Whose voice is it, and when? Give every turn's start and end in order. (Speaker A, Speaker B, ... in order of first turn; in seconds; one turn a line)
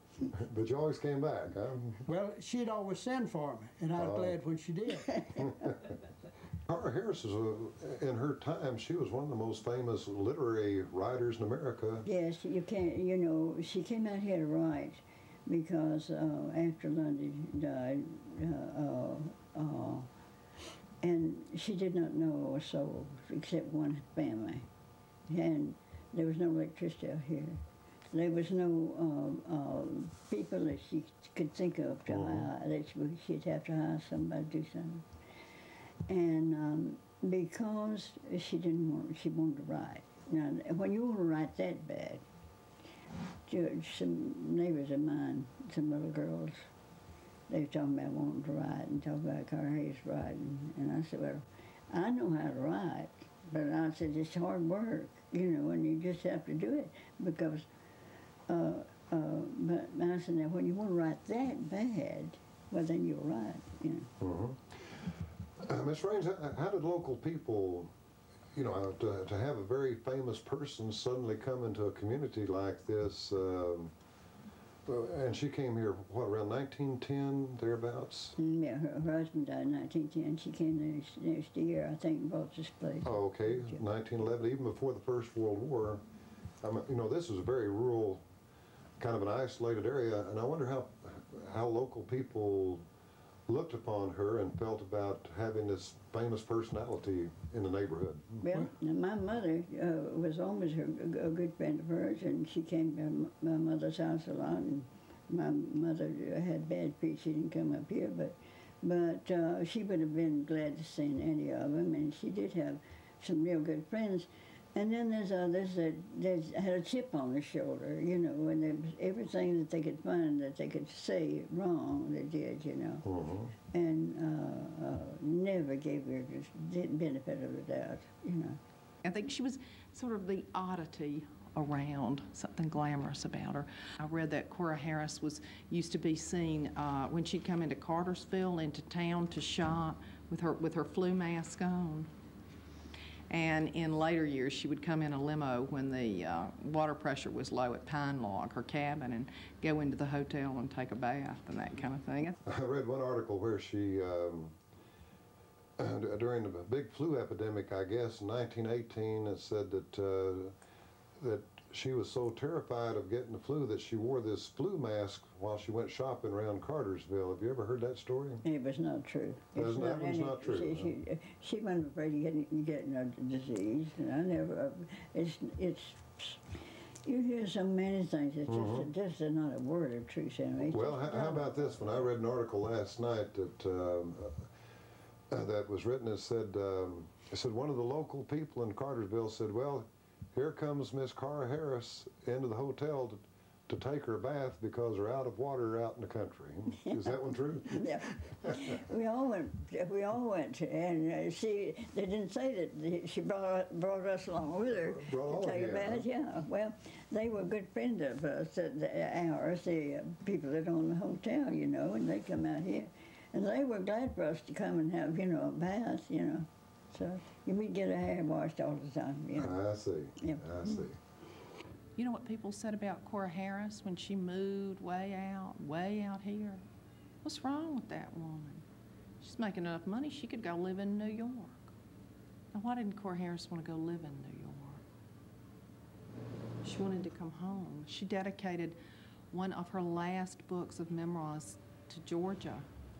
Speaker A: 0.3-2.0
Speaker B: 2.0-5.4
Speaker A: 4.0-4.3
Speaker A: 5.4-5.8
Speaker A: 6.7-12.0
Speaker C: 12.0-20.1
Speaker C: 21.0-24.7
Speaker C: 25.3-27.6
Speaker C: 28.1-35.0
Speaker A: 32.1-32.5
Speaker C: 36.1-42.2
Speaker C: 43.5-46.6
Speaker C: 47.5-57.7
Speaker C: 58.5-64.1
Speaker A: 64.2-64.8
Speaker A: 65.6-67.9
Speaker A: 68.5-73.9
Speaker A: 74.8-78.3
Speaker C: 78.4-83.8
Speaker A: 83.0-86.0
Speaker A: 86.6-88.2
Speaker A: 89.0-92.8
Speaker A: 93.5-98.4
Speaker C: 98.4-123.0
Speaker A: 123.0-123.5
Speaker C: 123.7-128.6
Speaker D: 129.0-142.1
Speaker D: 143.3-152.3
Speaker A: 152.4-154.6
Speaker A: 155.8-160.5
Speaker A: 161.2-168.4
Speaker C: 168.4-182.0
Speaker A: 169.5-170.9
Speaker A: 178.5-178.9
Speaker A: 180.7-184.5
Speaker A: 185.3-197.8
Speaker C: 197.7-219.6
Speaker A: 204.9-206.0
Speaker A: 219.4-221.0
Speaker C: 220.2-220.8
Speaker D: 222.0-226.6
Speaker D: 227.2-228.6
Speaker D: 229.2-231.7
Speaker D: 232.5-234.8
Speaker D: 236.6-238.8
Speaker D: 239.3-242.7